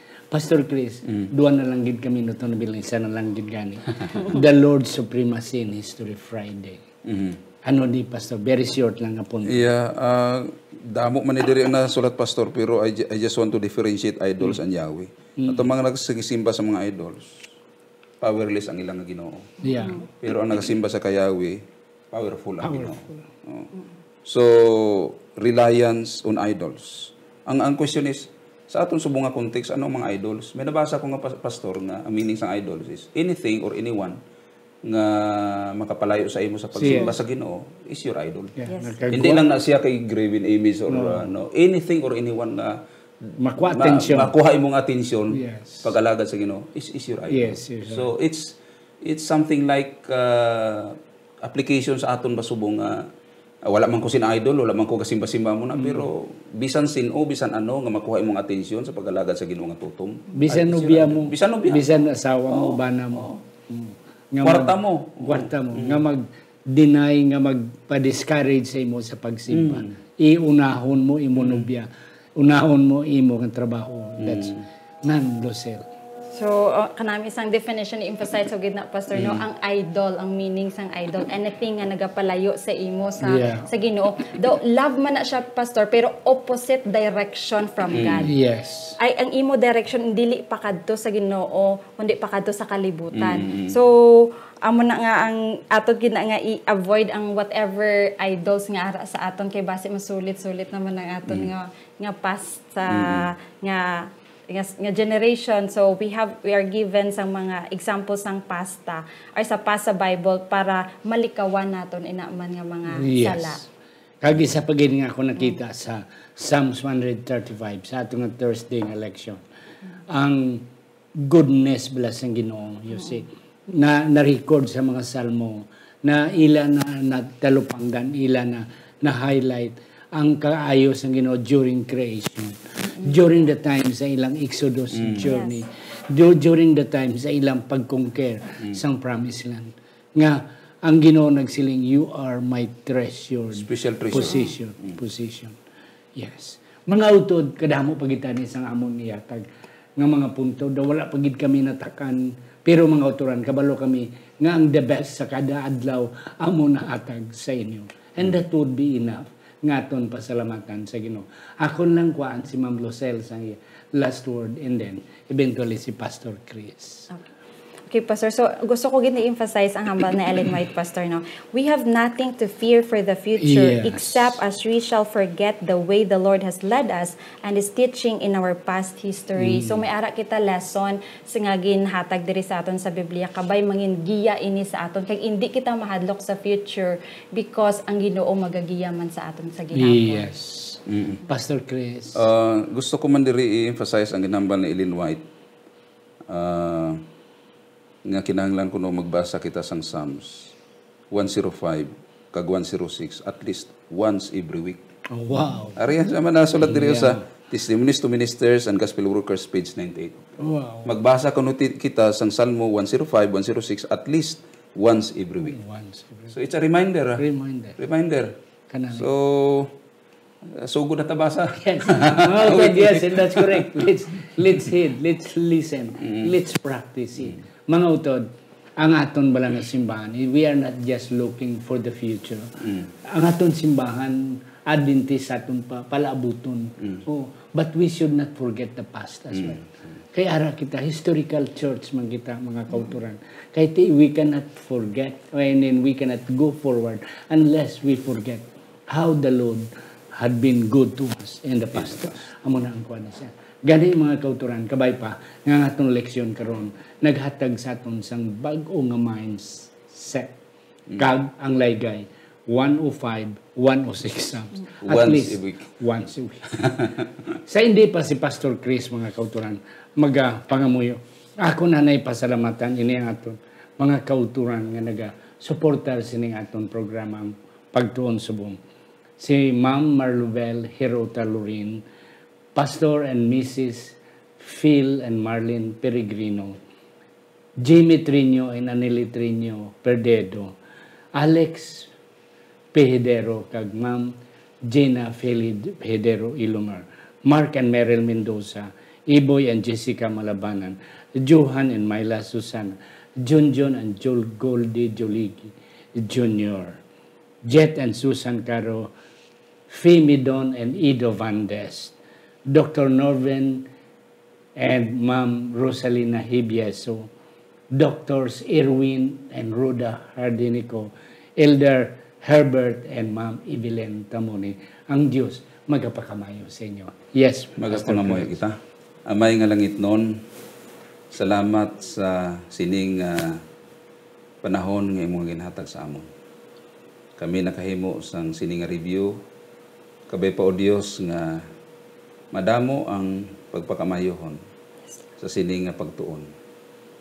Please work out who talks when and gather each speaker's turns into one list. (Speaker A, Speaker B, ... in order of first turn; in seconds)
Speaker A: 0.3-6.8, 7.6-9.7, 15.4-15.7, 19.6-20.1, 22.6-23.2, 36.8-37.1, 38.6-39.5, 40.9-41.3, 43.4-44.3, 45.3-45.9, 47.3-48.1, 55.8-56.1, 60.3-75.9, 83.2-83.7, 88.2-89.0, 112.9-113.7, 114.2-119.4, 120.1-120.7, 121.2-145.6, 146.2-149.4, 150.0-167.1, 173.4-174.4, 179.4-179.8, 189.7-192.2, 205.1-205.8, 206.6-207.2, 210.4-211.0, 215.4-216.3, 217.2-217.8, 218.7-219.1, 221.6-260.4, 261.0-266.7, 267.5-278.6, 279.2-281.8, 282.5-286.6, 287.6-290.6, 291.1-291.9, 292.7-294.1, 294.7-306.8, 307.4-308.9, 309.7-311.9, 312.5-313.7, 314.6-317.1, 317.7-328.4
Speaker B: 7.0-7.4, 9.4-17.5, 18.2-19.6, 20.2-23.7, 24.2-34.2, 34.8-38.5, 39.1-53.1, 53.6-62.0, 62.5-63.4, 64.4-66.0, 69.5-69.9, 71.4-71.7, 74.2-74.6, 79.1-79.4, 87.9-88.3, 93.1-93.8, 102.9-103.3, 134.9-135.3, 143.6-145.0, 190.9-191.2, 192.1-195.2, 196.3-197.0, 198.0-200.5, 201.1-204.8, 205.8-215.6, 216.3-217.2, 217.8-218.3, 218.9-219.7, 220.5-224.4, 226.0-226.3, 251.8-252.1, 264.8-265.6, 266.6-267.1, 327.6-328.5, 329.1-330.2, 331.1-333.4, 334.4-336.1, 337.2-339.2, 340.1-341.4, 342.3-344.4, 345.2-346.3
Speaker C: 36.9-37.1, 38.6-39.0, 76.3-88.3, 89.0-113.6, 135.2-135.6, 167.9-190.3